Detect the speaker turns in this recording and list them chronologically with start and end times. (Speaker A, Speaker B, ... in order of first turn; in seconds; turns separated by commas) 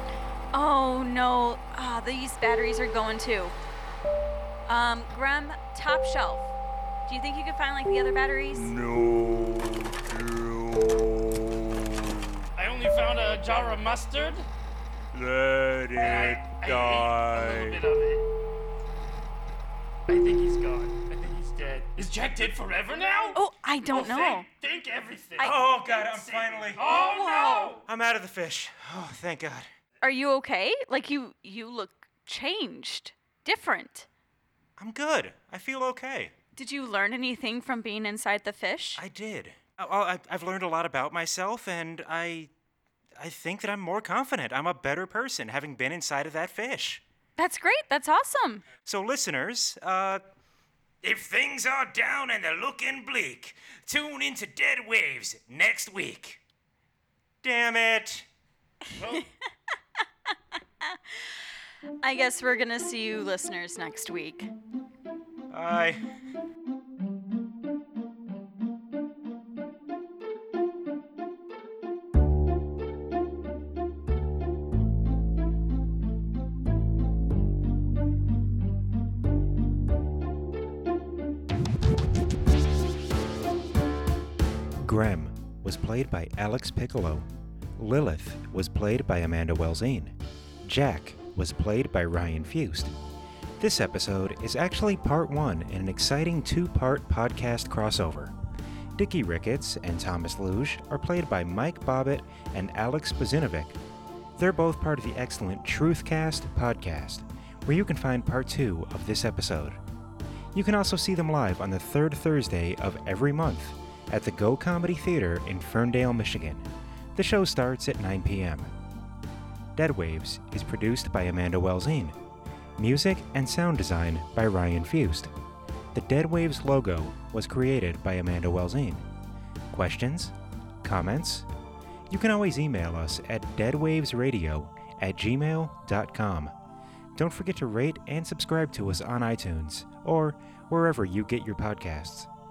Speaker A: 0.5-3.5, Speaker A: 4.7-6.5, Speaker A: 7.1-8.7, Speaker B: 8.5-12.5, Speaker C: 12.6-14.5, Speaker B: 15.1-17.8, Speaker C: 16.0-18.2, Speaker C: 20.1-23.4, Speaker A: 23.4-24.5, Speaker C: 23.9-27.8, Speaker A: 25.4-25.7, Speaker B: 25.4-26.8, Speaker A: 26.9-27.8, Speaker B: 27.9-29.7, Speaker A: 30.0-34.1, Speaker B: 34.8-36.3, Speaker A: 36.6-39.0, Speaker B: 39.0-42.5, Speaker B: 43.2-47.0, Speaker A: 47.4-48.6, Speaker B: 48.9-50.2, Speaker B: 51.0-56.4, Speaker B: 57.4-58.2, Speaker C: 59.0-59.3, Speaker A: 62.0-64.5, Speaker B: 65.5-66.0, Speaker D: 84.8-87.3, Speaker D: 87.8-92.9, Speaker D: 93.6-98.3, Speaker D: 99.0-103.8, Speaker D: 104.4-109.8, Speaker D: 110.5-118.7, Speaker D: 119.7-122.2, Speaker D: 122.8-125.3, Speaker D: 125.9-129.1, Speaker D: 129.7-131.5, Speaker D: 132.1-136.5, Speaker D: 137.1-142.3